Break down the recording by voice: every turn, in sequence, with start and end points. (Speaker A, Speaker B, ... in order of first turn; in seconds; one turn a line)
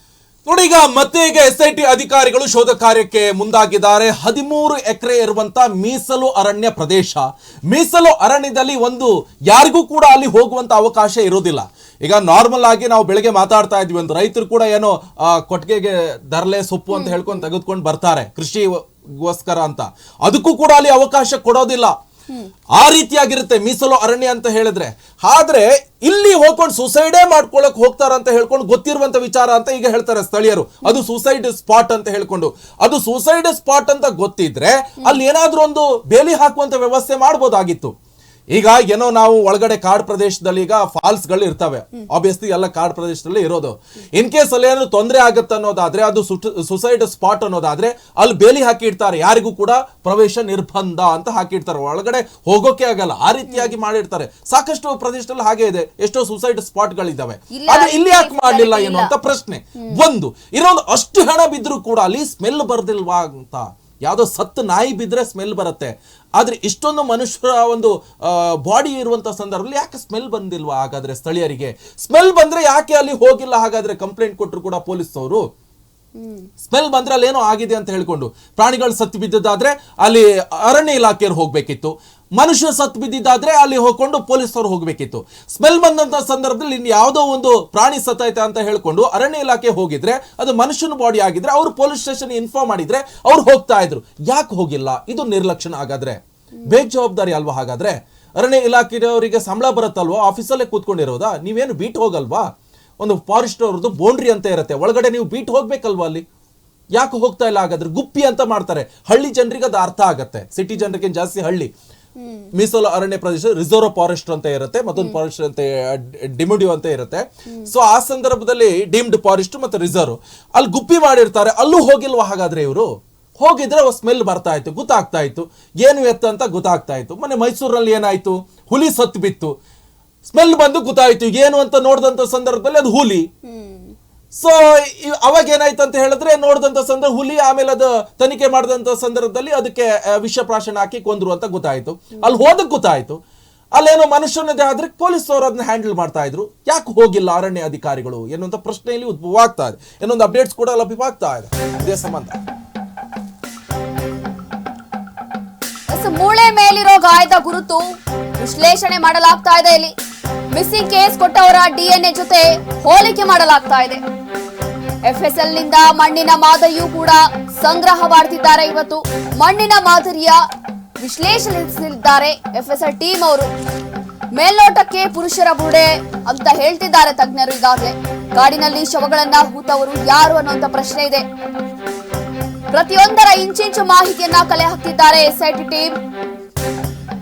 Speaker A: 0.5-21.9
Speaker B: 16.9-17.4
Speaker A: 22.8-37.9
Speaker A: 38.5-75.4
Speaker B: 53.5-53.7
Speaker B: 57.5-59.1
Speaker B: 76.2-76.5
Speaker A: 76.6-102.5
Speaker A: 103.0-106.2
Speaker A: 106.9-111.7
Speaker B: 112.2-112.5
Speaker A: 112.5-129.5
Speaker A: 130.2-133.3
Speaker B: 133.4-133.9
Speaker A: 134.3-143.2
Speaker A: 143.8-152.4
Speaker B: 155.9-157.8
Speaker B: 158.4-159.9
Speaker B: 160.5-164.0
Speaker B: 165.1-170.4
Speaker B: 171.0-173.5
Speaker B: 174.4-181.2
Speaker B: 182.7-185.9